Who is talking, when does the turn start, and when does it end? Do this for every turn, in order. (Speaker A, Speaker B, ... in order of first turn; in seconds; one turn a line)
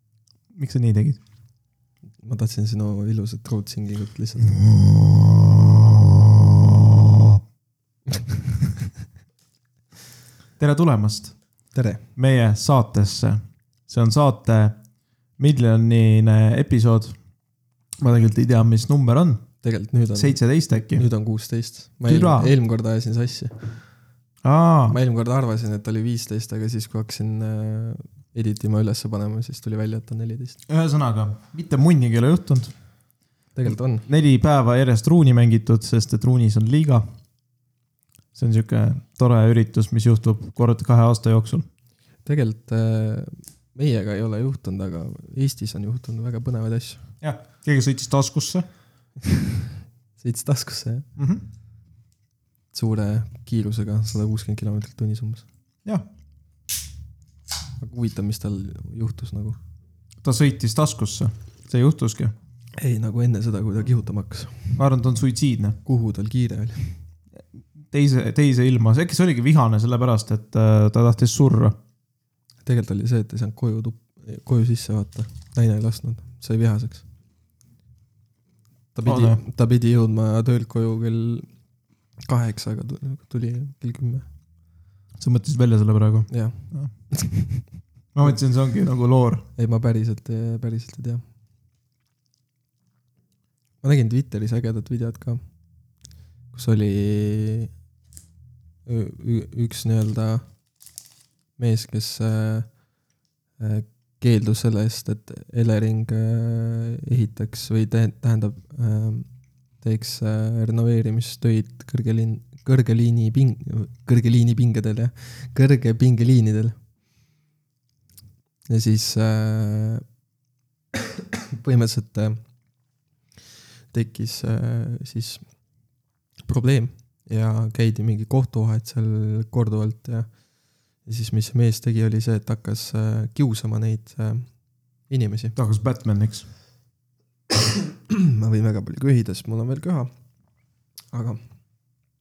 Speaker A: 0.6-1.2
Speaker B: 2.2-4.7
Speaker A: 5.1-5.6
Speaker B: 8.1-8.7
Speaker A: 10.6-11.3
Speaker B: 11.7-12.0
Speaker A: 12.2-14.8
Speaker A: 15.4-17.1
Speaker A: 18.0-19.4
Speaker B: 19.6-20.4
Speaker A: 20.1-21.1
Speaker B: 21.0-23.5
Speaker A: 22.1-22.5
Speaker A: 24.4-25.0
Speaker B: 24.9-30.6
Speaker A: 30.7-32.7
Speaker B: 33.6-34.0
Speaker A: 34.1-37.0
Speaker A: 38.4-41.7
Speaker B: 42.2-47.0
Speaker A: 47.2-48.7
Speaker B: 49.2-49.6
Speaker B: 50.2-51.1
Speaker A: 51.2-51.4
Speaker B: 52.7-55.5
Speaker B: 57.8-59.6
Speaker A: 60.2-62.3
Speaker B: 62.8-64.7
Speaker A: 64.8-65.8
Speaker B: 65.9-67.0
Speaker A: 67.9-71.8
Speaker B: 72.6-77.0
Speaker B: 79.0-81.5
Speaker A: 79.0-79.4
Speaker B: 82.3-84.3
Speaker A: 85.2-86.9
Speaker B: 86.3-87.6
Speaker A: 88.2-89.5
Speaker B: 89.6-91.2
Speaker B: 93.8-95.4
Speaker B: 96.5-97.7
Speaker B: 98.9-100.4
Speaker B: 101.6-102.7
Speaker B: 103.6-109.3
Speaker B: 109.8-116.8
Speaker B: 118.7-120.0
Speaker B: 120.9-122.4
Speaker B: 123.9-125.4
Speaker B: 126.5-130.3
Speaker B: 131.1-134.4
Speaker B: 135.1-135.6
Speaker A: 135.6-136.5
Speaker B: 137.7-140.1
Speaker B: 141.1-141.4